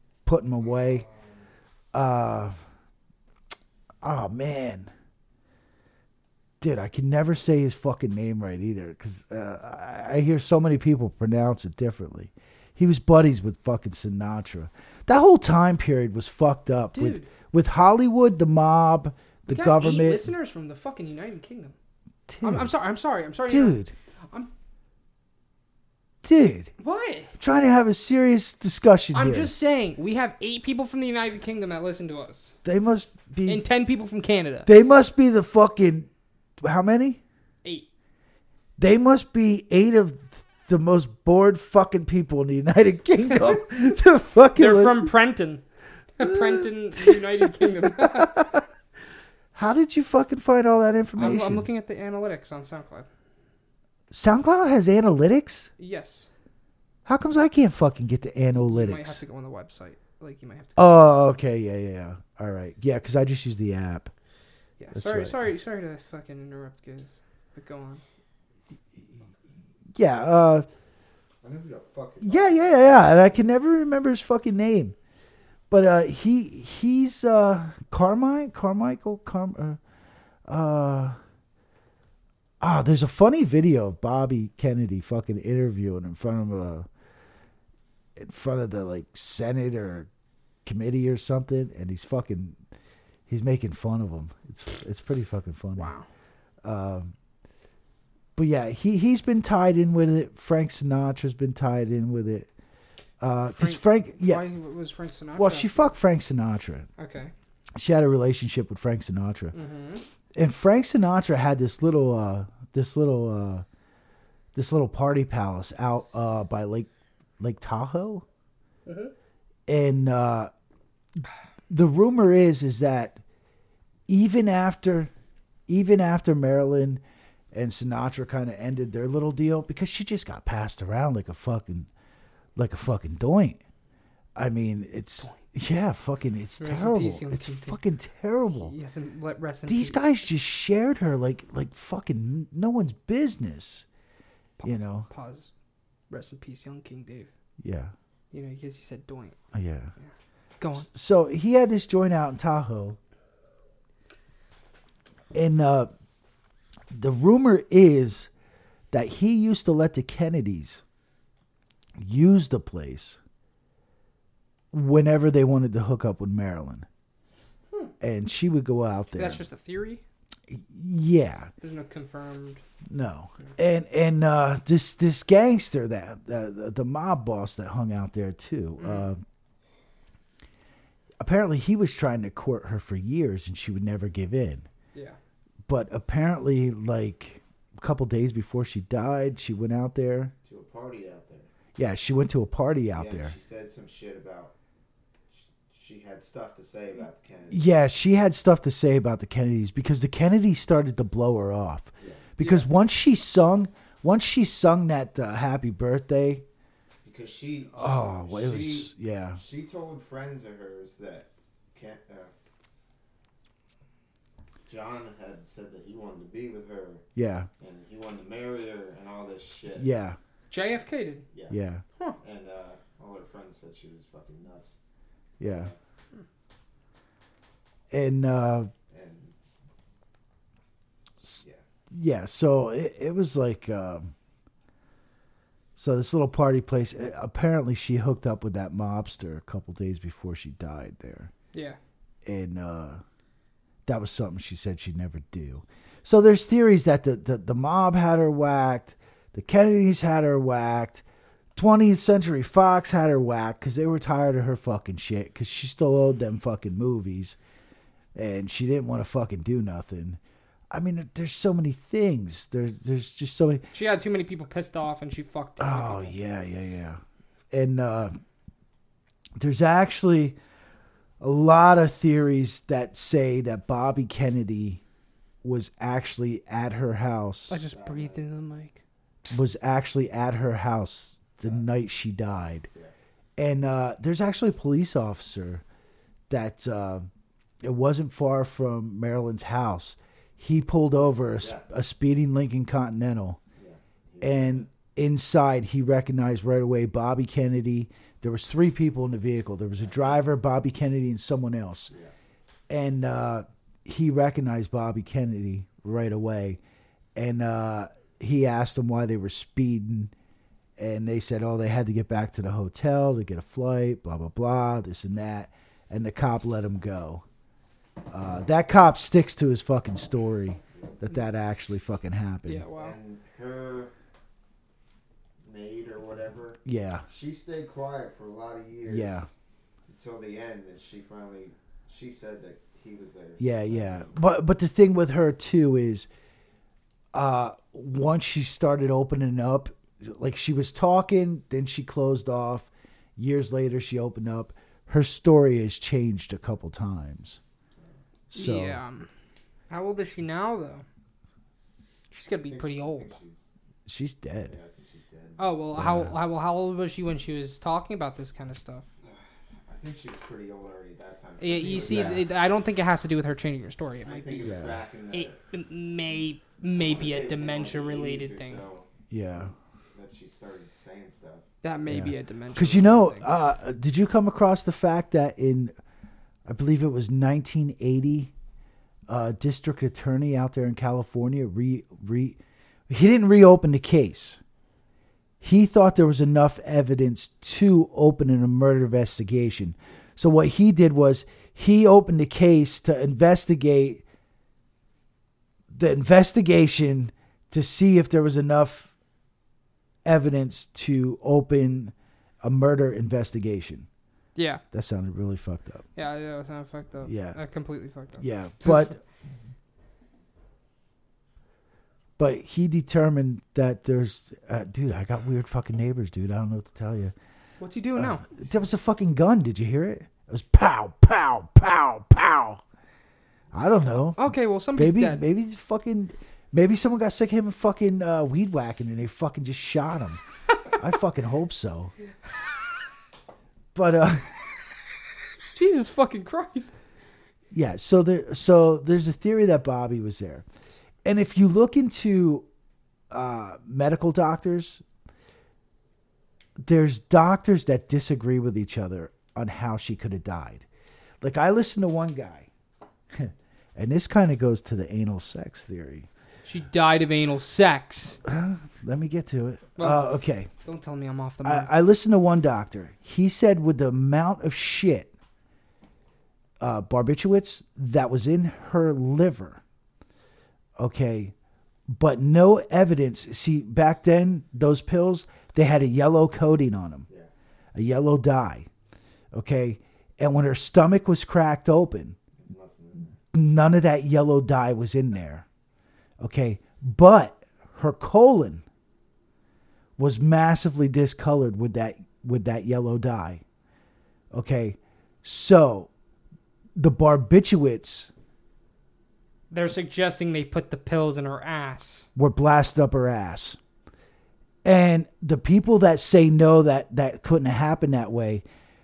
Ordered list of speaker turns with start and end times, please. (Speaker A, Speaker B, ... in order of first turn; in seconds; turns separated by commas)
Speaker A: 0.2-1.1, Speaker A: 1.9-2.5, Speaker A: 4.0-4.9, Speaker A: 6.6-20.2, Speaker B: 16.9-17.3, Speaker B: 19.5-21.7, Speaker A: 22.3-22.7, Speaker B: 22.4-23.8, Speaker A: 23.5-23.9, Speaker A: 26.2-26.7, Speaker B: 26.8-27.3, Speaker A: 27.4-29.5, Speaker B: 29.1-32.5, Speaker A: 32.6-33.6, Speaker B: 33.5-34.7, Speaker A: 34.6-36.1, Speaker A: 36.6-37.2, Speaker A: 38.8-45.1, Speaker B: 44.5-45.6, Speaker B: 46.2-48.5, Speaker A: 46.2-48.6, Speaker A: 49.5-51.6, Speaker B: 51.1-53.1, Speaker A: 54.1-55.7, Speaker B: 55.8-56.3, Speaker A: 57.0-59.2, Speaker B: 58.5-61.3, Speaker A: 60.8-64.1, Speaker B: 64.8-68.0, Speaker A: 64.9-65.4, Speaker A: 69.9-70.7, Speaker C: 71.4-73.5, Speaker A: 72.2-75.0, Speaker A: 75.7-79.8, Speaker A: 80.5-81.2, Speaker A: 82.6-86.9, Speaker A: 88.2-90.1, Speaker A: 90.6-92.6, Speaker A: 93.3-95.9, Speaker B: 95.8-96.0, Speaker A: 96.6-97.1, Speaker A: 98.4-102.5, Speaker A: 103.2-104.4, Speaker B: 103.5-105.9, Speaker A: 105.4-106.9, Speaker B: 107.0-107.3, Speaker A: 107.8-109.5, Speaker B: 109.5-110.0, Speaker A: 110.3-113.6, Speaker A: 114.5-118.2, Speaker B: 118.9-119.1, Speaker A: 119.7-120.5, Speaker A: 121.7-123.2, Speaker A: 124.1-125.1, Speaker A: 125.7-127.0, Speaker A: 127.5-131.9, Speaker A: 132.6-133.6, Speaker A: 134.4-138.7, Speaker B: 136.6-137.8, Speaker B: 138.5-140.0, Speaker A: 139.7-143.9, Speaker B: 144.6-145.5, Speaker A: 144.6-145.1, Speaker B: 146.1-147.3, Speaker A: 147.6-147.9, Speaker B: 148.3-149.4, Speaker A: 149.5-149.9, Speaker B: 150.6-150.9, Speaker A: 150.8-153.0, Speaker A: 155.3-155.9, Speaker A: 156.9-158.3, Speaker A: 158.9-160.8, Speaker A: 162.0-163.2, Speaker A: 164.7-166.9, Speaker A: 168.0-169.4, Speaker B: 169.2-170.0, Speaker A: 170.5-171.5, Speaker B: 171.6-172.6, Speaker A: 172.9-179.2, Speaker B: 178.8-179.1, Speaker A: 181.2-184.7, Speaker A: 185.7-190.3, Speaker C: 190.4-191.5, Speaker A: 191.8-193.3, Speaker C: 192.9-194.5, Speaker C: 195.3-197.7, Speaker A: 197.5-206.4, Speaker C: 202.0-202.3, Speaker B: 202.4-202.7, Speaker C: 207.0-212.3, Speaker A: 207.7-209.4, Speaker C: 214.7-217.1, Speaker A: 217.2-217.5, Speaker C: 217.6-219.9, Speaker A: 219.7-220.2, Speaker B: 220.5-221.2, Speaker A: 221.5-221.8, Speaker C: 222.2-224.8, Speaker A: 225.4-225.7, Speaker C: 225.4-225.8, Speaker A: 227.9-228.7, Speaker C: 228.9-229.3, Speaker A: 231.2-234.1, Speaker A: 235.8-241.3, Speaker A: 242.2-243.0, Speaker A: 243.9-251.0, Speaker A: 251.6-257.4, Speaker A: 258.1-260.2, Speaker A: 260.7-263.6, Speaker B: 263.7-266.2, Speaker A: 265.6-267.0, Speaker A: 267.5-268.2, Speaker A: 269.4-270.4, Speaker A: 271.2-274.8, Speaker A: 275.4-277.6, Speaker B: 277.5-279.4, Speaker C: 277.7-278.2, Speaker A: 279.3-282.7, Speaker A: 283.4-285.6, Speaker A: 286.3-287.1, Speaker A: 287.6-293.4, Speaker C: 291.4-291.6, Speaker C: 293.6-294.7, Speaker A: 294.2-301.9, Speaker C: 299.8-300.2, Speaker A: 302.7-306.6, Speaker A: 307.1-310.1, Speaker A: 310.8-317.2, Speaker A: 318.1-322.6, Speaker C: 320.7-321.1, Speaker B: 322.4-323.0, Speaker C: 322.8-323.9, Speaker C: 325.4-329.2, Speaker A: 326.6-327.1, Speaker A: 328.9-329.3, Speaker C: 329.9-334.1, Speaker A: 333.4-336.1, Speaker A: 337.1-347.4, Speaker A: 348.3-348.8, Speaker B: 348.3-349.1, Speaker B: 349.7-350.8, Speaker B: 352.1-353.1, Speaker C: 352.4-353.4, Speaker A: 353.9-354.5, Speaker C: 354.5-355.6, Speaker B: 355.4-358.8, Speaker A: 355.7-356.2, Speaker C: 359.0-362.2, Speaker B: 361.4-364.6, Speaker A: 361.8-362.2, Speaker C: 364.0-365.4, Speaker A: 364.4-364.8, Speaker B: 365.1-368.6, Speaker C: 366.7-368.9, Speaker A: 369.1-369.5, Speaker C: 369.9-371.5, Speaker B: 371.6-373.3, Speaker A: 371.9-375.7, Speaker A: 376.4-378.3, Speaker A: 379.1-384.4, Speaker A: 385.4-394.0, Speaker A: 395.7-398.9, Speaker A: 400.0-403.9, Speaker B: 404.4-404.6, Speaker A: 404.7-405.9, Speaker B: 405.9-408.9, Speaker A: 407.0-407.4, Speaker A: 408.2-409.0, Speaker A: 412.2-417.1, Speaker B: 417.6-418.3, Speaker A: 417.9-422.6, Speaker A: 423.5-430.2, Speaker B: 424.2-425.2, Speaker A: 430.7-431.9, Speaker A: 433.7-434.5, Speaker B: 435.5-436.7, Speaker A: 437.5-440.4, Speaker A: 441.0-442.4, Speaker A: 443.1-444.8, Speaker A: 446.6-450.7, Speaker A: 451.2-452.5, Speaker A: 453.1-456.1, Speaker B: 456.4-458.2, Speaker A: 458.2-460.5, Speaker B: 459.8-460.1, Speaker B: 460.6-461.7, Speaker A: 461.4-465.1, Speaker A: 466.6-469.6, Speaker A: 470.8-471.3, Speaker A: 471.9-477.1, Speaker A: 477.7-478.7, Speaker A: 479.3-482.2, Speaker C: 482.4-483.2, Speaker A: 483.3-485.4, Speaker A: 486.2-488.6, Speaker A: 490.0-493.4, Speaker A: 494.3-495.9, Speaker A: 496.8-498.1, Speaker B: 499.5-502.1, Speaker A: 502.2-503.6, Speaker A: 504.6-508.4